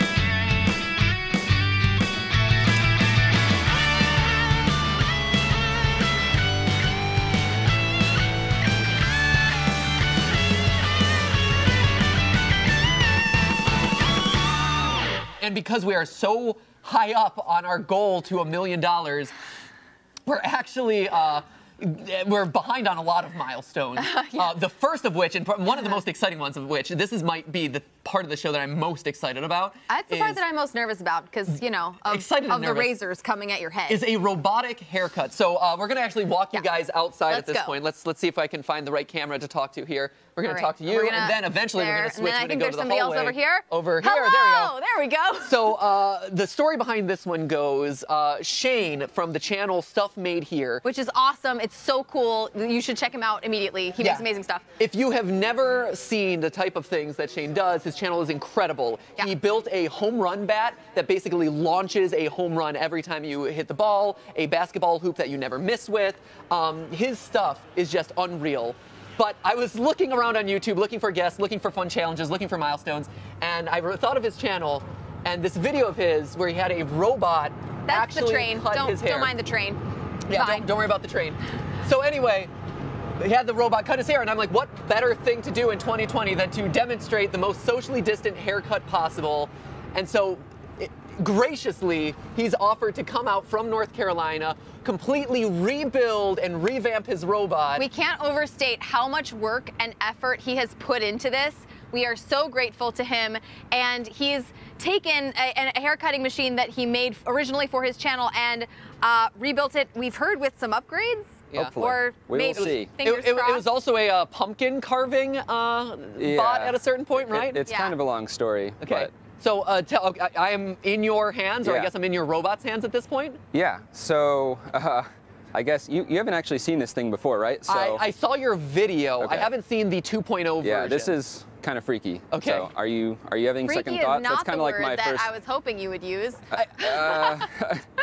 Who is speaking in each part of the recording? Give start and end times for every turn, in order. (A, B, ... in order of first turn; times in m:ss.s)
0:15.4-0:19.3 A
0:20.3-0:30.4 A
0:24.0-0:24.6 B
0:25.7-0:26.0 B
0:29.9-0:34.0 B
0:32.1-0:32.9 A
0:33.9-0:44.7 A
0:37.3-0:37.8 B
0:40.4-0:45.7 B
0:45.4-0:50.8 A
0:50.8-0:54.6 B
0:54.0-0:54.3 A
0:54.8-1:19.3 A
1:17.9-1:20.7 B
1:20.3-1:22.5 A
1:23.2-1:37.9 A
1:37.8-1:53.6 B
1:51.5-1:52.9 C
1:52.5-1:57.6 A
1:56.2-1:59.1 C
1:57.6-1:58.0 B
1:58.8-2:03.4 A
2:01.6-2:01.9 C
2:03.5-2:08.0 C
2:07.7-2:11.1 A
2:09.2-2:09.5 C
2:10.6-2:15.3 C
2:12.3-2:12.7 A
2:13.7-2:17.4 B
2:16.5-2:17.9 C
2:16.5-2:17.3 A